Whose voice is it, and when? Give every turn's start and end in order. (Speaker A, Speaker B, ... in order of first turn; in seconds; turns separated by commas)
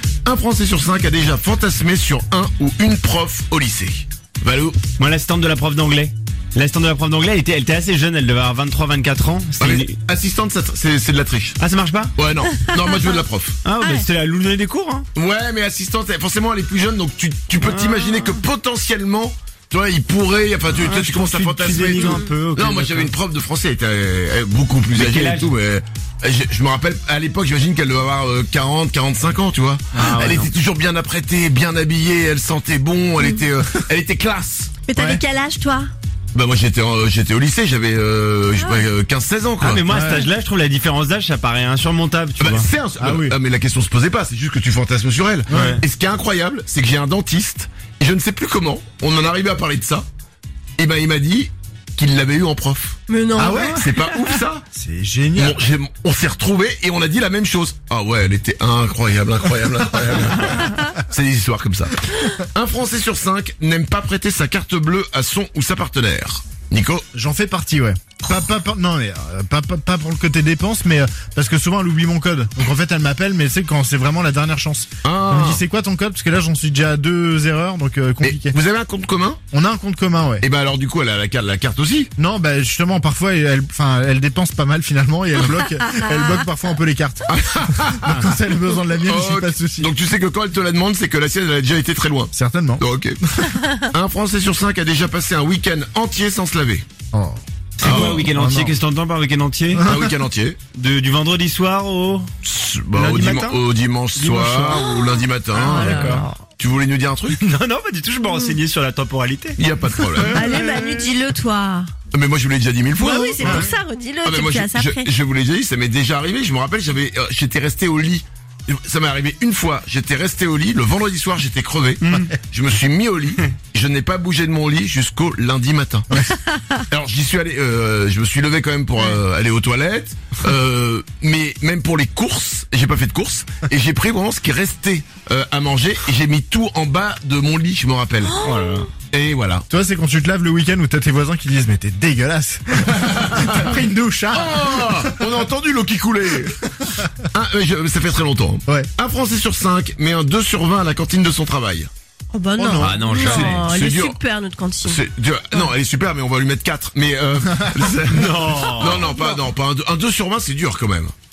Speaker A: 0.2-4.8, Speaker B: 5.0-9.9, Speaker A: 9.6-11.6, Speaker B: 11.6-12.2, Speaker A: 12.2-13.6, Speaker C: 12.7-13.2, Speaker B: 13.6-15.1, Speaker A: 15.1-34.7, Speaker B: 17.6-18.4, Speaker B: 20.7-23.1, Speaker B: 24.9-25.5, Speaker B: 29.9-30.5, Speaker C: 34.8-35.9, Speaker D: 34.9-35.2, Speaker A: 36.3-39.9, Speaker C: 38.5-38.9, Speaker B: 39.6-42.7, Speaker D: 39.9-40.3, Speaker A: 42.4-50.0, Speaker D: 43.0-43.4, Speaker B: 45.5-45.8, Speaker D: 45.5-45.8, Speaker A: 50.8-54.6, Speaker C: 53.1-54.2, Speaker D: 53.4-53.9, Speaker D: 54.7-55.6, Speaker A: 55.4-67.0, Speaker D: 67.1-78.5, Speaker A: 75.0-75.6, Speaker A: 78.2-79.4, Speaker D: 79.5-80.4, Speaker A: 80.4-82.1, Speaker D: 82.2-89.9, Speaker A: 87.3-88.3, Speaker A: 89.0-96.8, Speaker D: 92.3-92.8, Speaker D: 97.1-98.8, Speaker B: 97.8-99.9, Speaker A: 97.8-98.3, Speaker D: 99.7-100.1, Speaker A: 99.8-100.6, Speaker B: 100.7-102.3, Speaker A: 102.4-107.4, Speaker B: 102.9-103.6, Speaker B: 104.1-104.8, Speaker C: 104.8-106.4, Speaker B: 105.5-106.3, Speaker B: 107.3-110.8, Speaker A: 109.6-110.4, Speaker C: 110.2-111.9, Speaker A: 112.1-113.7, Speaker C: 113.0-115.1, Speaker D: 113.4-113.7, Speaker A: 114.2-138.3, Speaker B: 122.0-122.3, Speaker D: 122.1-122.3, Speaker D: 126.1-126.4, Speaker C: 138.2-138.9, Speaker B: 138.4-138.9, Speaker A: 139.1-139.7, Speaker D: 139.7-145.3, Speaker A: 143.0-143.7, Speaker A: 144.3-146.6, Speaker A: 147.3-151.9, Speaker C: 152.3-155.0, Speaker D: 152.5-153.5, Speaker B: 152.8-153.7, Speaker A: 153.2-154.2, Speaker A: 154.8-161.1, Speaker D: 157.6-157.8, Speaker B: 158.1-159.1, Speaker C: 158.9-159.3